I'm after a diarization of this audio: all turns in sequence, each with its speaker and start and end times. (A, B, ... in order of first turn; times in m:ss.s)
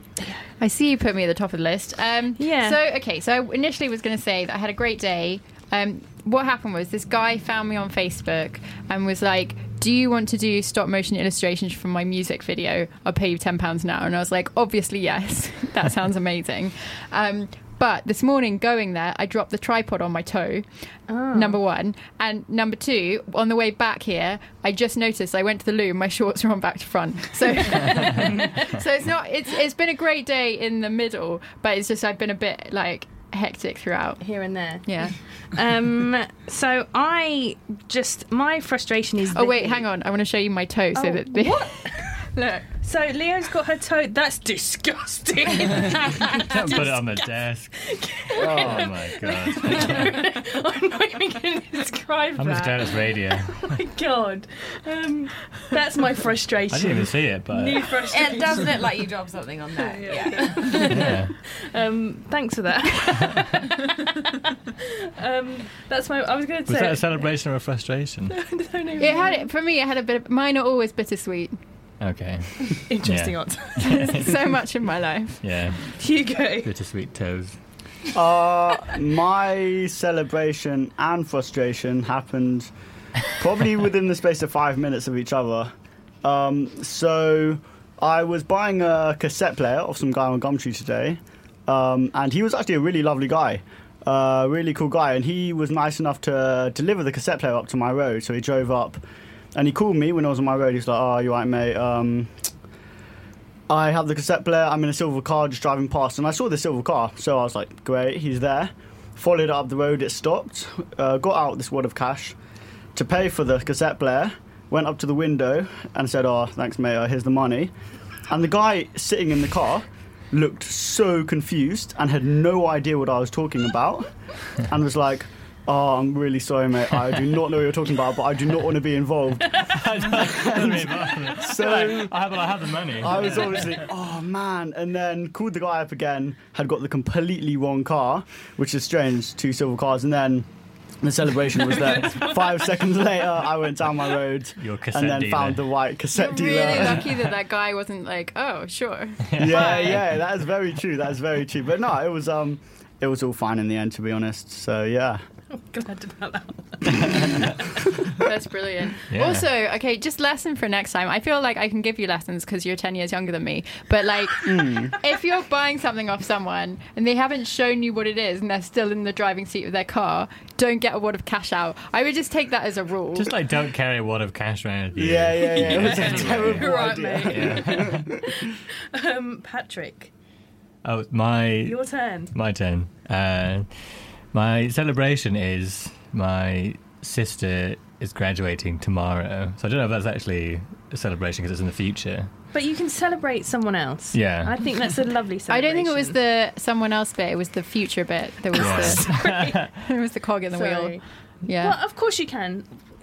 0:00.2-0:00.4 A
0:00.6-0:20.6 B
0:02.4-0:02.8 A
0:21.1-0:21.6 A
0:21.3-0:34.2 B
0:34.2-0:39.8 A
0:34.8-0:35.1 B
0:39.3-0:42.6 B
0:40.9-0:58.8 A
0:46.5-0:47.7 C
0:48.4-0:50.2 C
0:48.4-0:48.8 D
0:52.4-0:53.7 C
0:56.7-0:57.9 C
0:58.1-1:01.0 E
0:59.8-1:07.3 A
1:00.9-1:01.3 C
1:06.7-1:08.3 C
1:08.3-1:09.5 A
1:09.0-1:11.6 B
1:12.0-1:14.6 C
1:12.9-1:14.2 A
1:14.0-1:15.4 B
1:15.4-1:16.0 C
1:15.9-1:16.7 A
1:16.6-1:17.6 C
1:18.1-1:22.7 D
1:23.3-1:25.7 D
1:26.2-1:39.0 D
1:39.5-1:42.3 D
1:43.7-1:52.4 D
1:52.9-1:57.7 D
1:58.3-2:04.1 D
2:04.6-2:12.2 D
2:09.6-2:13.8 C
2:13.0-2:20.5 D
2:21.0-2:27.3 D
2:24.6-2:25.6 C
2:26.1-2:29.8 B
2:29.3-2:30.0 C
2:29.4-2:35.2 D
2:35.5-2:37.4 A
2:38.2-2:53.4 B
2:39.1-2:39.4 C
2:44.4-2:44.9 D
2:53.1-2:58.1 C
2:54.9-2:58.1 D
2:55.5-3:00.1 A
3:00.8-3:12.3 C
3:01.6-3:02.3 A
3:12.5-3:16.2 A
3:14.1-3:14.7 C
3:15.5-3:21.8 B
3:18.6-3:19.6 A
3:18.6-3:19.7 C
3:20.5-3:22.7 A